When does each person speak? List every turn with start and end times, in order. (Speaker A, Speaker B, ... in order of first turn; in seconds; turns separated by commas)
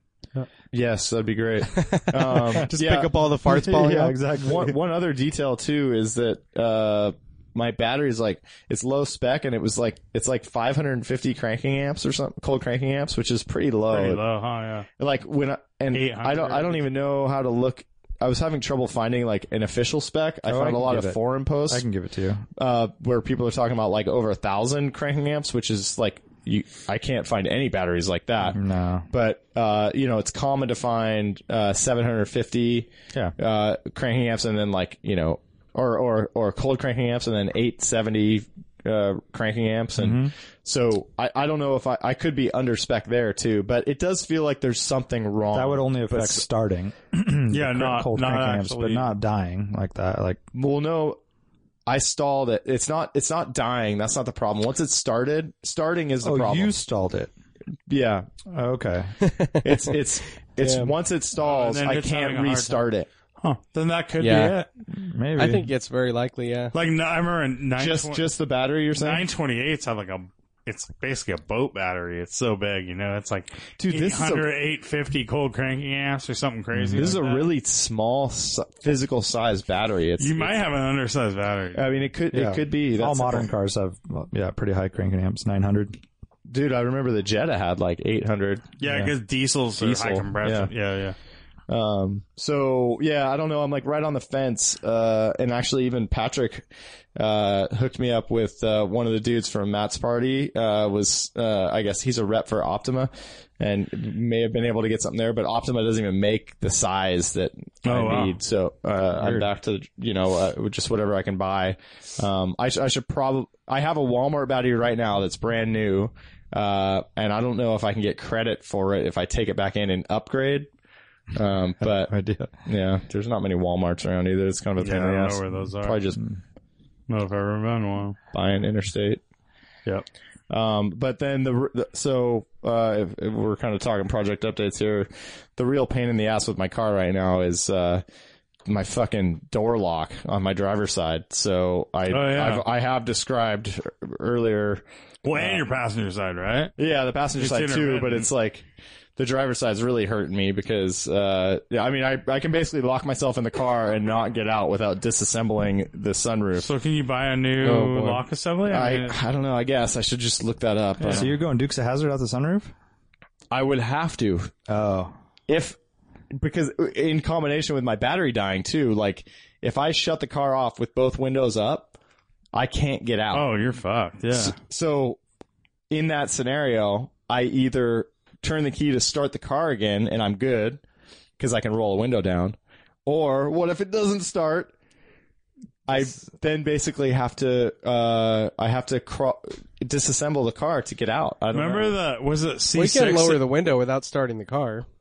Speaker A: 0.7-14.2, Speaker B: 1.8-4.4, Speaker C: 3.8-4.7, Speaker D: 13.9-14.9, Speaker A: 15.0-21.8, Speaker D: 15.9-16.8, Speaker C: 20.4-22.4, Speaker A: 22.6-46.4, Speaker C: 28.4-29.1, Speaker C: 40.0-40.3, Speaker C: 45.5-50.4, Speaker D: 47.5-49.0, Speaker A: 50.5-51.2, Speaker A: 51.9-56.7, Speaker C: 56.2-57.3, Speaker A: 57.9-58.3, Speaker C: 58.5-59.1, Speaker B: 59.2-59.9, Speaker A: 59.6-63.1, Speaker B: 60.6-60.9, Speaker D: 61.3-62.9, Speaker D: 63.4-64.7, Speaker B: 64.2-64.6, Speaker C: 64.9-65.7, Speaker B: 65.3-66.7, Speaker D: 66.7-68.3, Speaker A: 67.8-69.2, Speaker D: 68.9-77.5, Speaker A: 73.8-74.5, Speaker C: 76.7-77.2, Speaker A: 76.9-80.6, Speaker D: 80.2-81.8, Speaker A: 81.7-83.5, Speaker C: 82.3-86.0, Speaker A: 86.5-88.7, Speaker D: 88.8-91.2, Speaker C: 88.8-89.1, Speaker A: 89.8-90.7, Speaker A: 91.7-120.7, Speaker D: 107.8-108.4, Speaker C: 109.2-109.5, Speaker A: 121.3-122.1, Speaker C: 121.8-122.5, Speaker A: 122.6-126.2, Speaker D: 124.8-126.0, Speaker D: 127.1-128.2, Speaker A: 128.3-129.2, Speaker A: 130.5-138.0, Speaker A: 138.7-144.8, Speaker D: 142.1-142.6, Speaker D: 145.2-146.7, Speaker A: 145.3-145.6, Speaker A: 146.8-156.7, Speaker D: 147.4-148.3, Speaker D: 156.6-159.2, Speaker A: 157.6-158.0, Speaker B: 157.7-158.2, Speaker A: 158.7-161.3, Speaker D: 161.0-161.3, Speaker C: 161.0-162.7, Speaker A: 163.5-164.5, Speaker C: 164.7-165.1, Speaker A: 165.5-165.8, Speaker A: 166.3-171.9, Speaker A: 172.5-173.5, Speaker D: 173.3-174.6, Speaker A: 174.3-175.2, Speaker A: 175.9-180.8, Speaker A: 181.4-184.7, Speaker A: 185.9-191.9, Speaker D: 191.5-193.4, Speaker B: 192.7-194.8